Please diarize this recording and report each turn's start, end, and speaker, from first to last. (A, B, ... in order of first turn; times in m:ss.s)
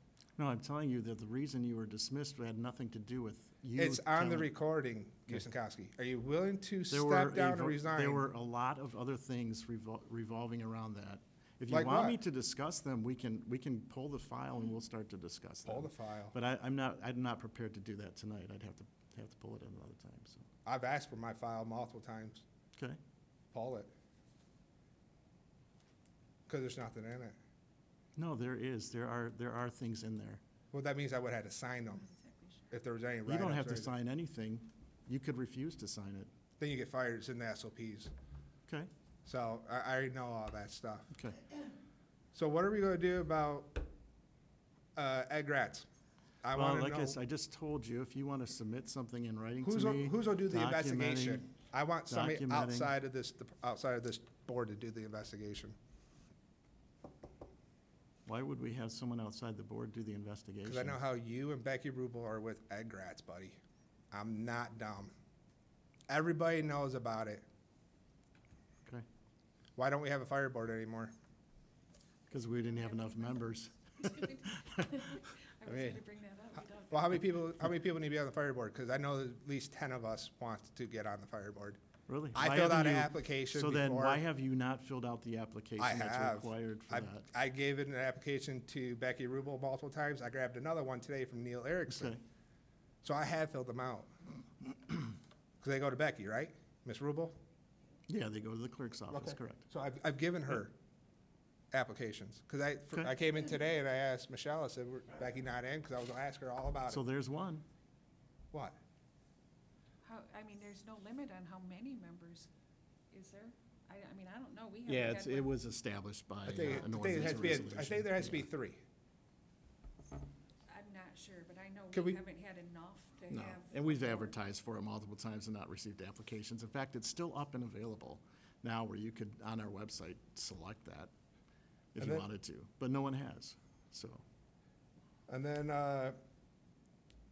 0:00.4-0:04.5 A
0:03.8-0:08.3 B
0:06.9-0:20.4 A
0:11.7-0:12.2 B
0:15.6-0:16.4 B
0:20.6-0:22.4 B
0:23.5-0:23.9 B
0:26.5-0:27.4 B
0:28.2-0:30.4 A
0:30.7-0:32.0 B
0:32.0-0:32.6 C
0:32.7-0:33.9 B
0:33.3-0:36.3 A
0:36.6-0:38.1 B
0:39.2-0:41.1 B
0:41.1-0:41.4 A
0:42.3-0:43.9 B
0:45.0-0:45.9 B
0:46.4-0:47.2 B
0:46.5-0:51.5 A
0:49.6-0:55.8 B
0:52.1-0:52.9 A
0:58.3-1:01.0 A
1:00.6-1:03.6 B
1:04.1-1:05.1 B
1:06.1-1:07.4 B
1:09.8-1:11.1 B
1:12.3-1:14.9 A
1:12.7-1:17.2 C
1:16.9-1:21.8 B
1:22.1-1:27.3 A
1:22.3-1:24.2 B
1:25.8-1:32.2 B
1:31.9-1:32.2 A
1:33.0-1:34.1 B
1:35.6-1:37.4 B
1:38.1-1:39.6 A
1:39.1-1:40.8 B
1:41.7-1:47.0 B
1:46.9-1:47.6 A
1:50.0-1:52.5 C
1:53.1-1:55.5 C
1:54.9-1:58.5 A
1:56.5-1:58.8 B
2:00.7-2:04.4 C
2:01.9-2:02.2 B
2:03.3-2:11.1 A
2:11.9-2:14.2 A
2:12.0-2:12.3 B
2:15.3-2:16.2 B